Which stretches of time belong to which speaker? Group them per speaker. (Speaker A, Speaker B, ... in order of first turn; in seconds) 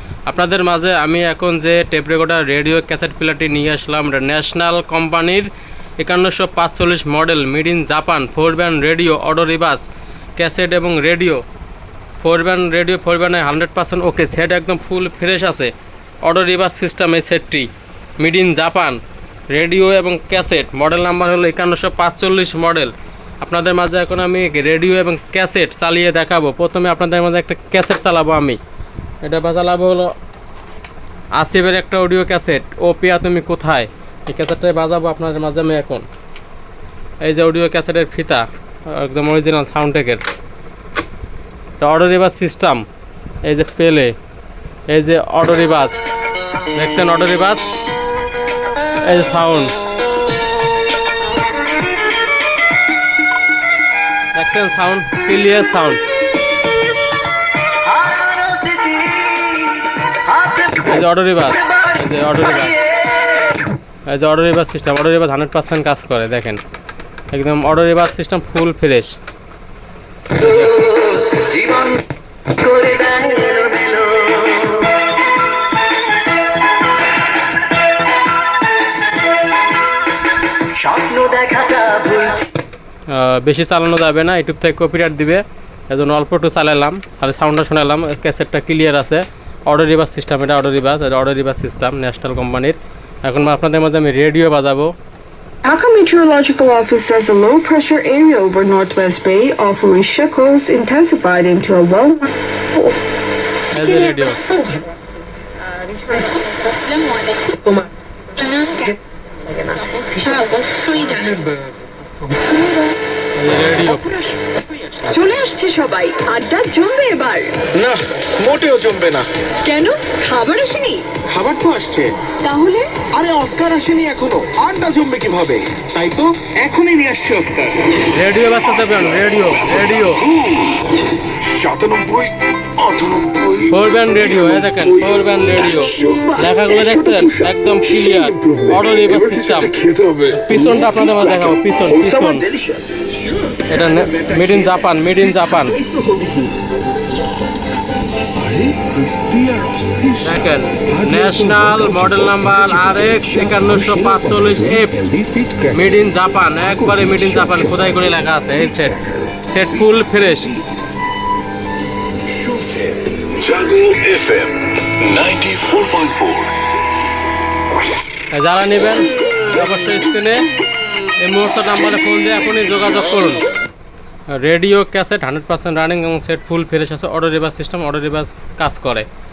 Speaker A: 0.3-11.4, 12.2-15.7, 16.2-28.6, 29.2-30.1, 31.4-36.1, 37.2-40.2, 41.8-42.8, 43.4-44.1, 44.9-46.0, 46.8-47.6, 49.0-49.7, 54.3-56.0, 60.7-62.8, 64.1-66.6, 67.3-69.2, 70.3-71.1, 83.1-94.9, 103.7-104.5, 113.4-114.3, 128.1-130.3, 133.7-139.8, 140.3-142.5, 143.7-145.8, 150.2-155.1, 155.7-160.6, 168.3-170.4, 171.2-173.5, 174.3-179.1
Speaker B: 57.9-59.8, 71.6-71.9, 72.8-74.8, 80.8-82.4, 129.6-141.6, 142.3-143.1, 145.8-146.6, 148.4-150.3, 150.9-155.8, 156.8-157.8, 162.6-166.5
Speaker C: 95.6-102.3, 106.1-107.8, 108.4-108.9, 109.7-111.1, 115.1-117.6, 119.6-121.2, 122.4-123.1
Speaker D: 117.7-119.3, 121.2-122.3, 123.1-127.8, 131.8-132.2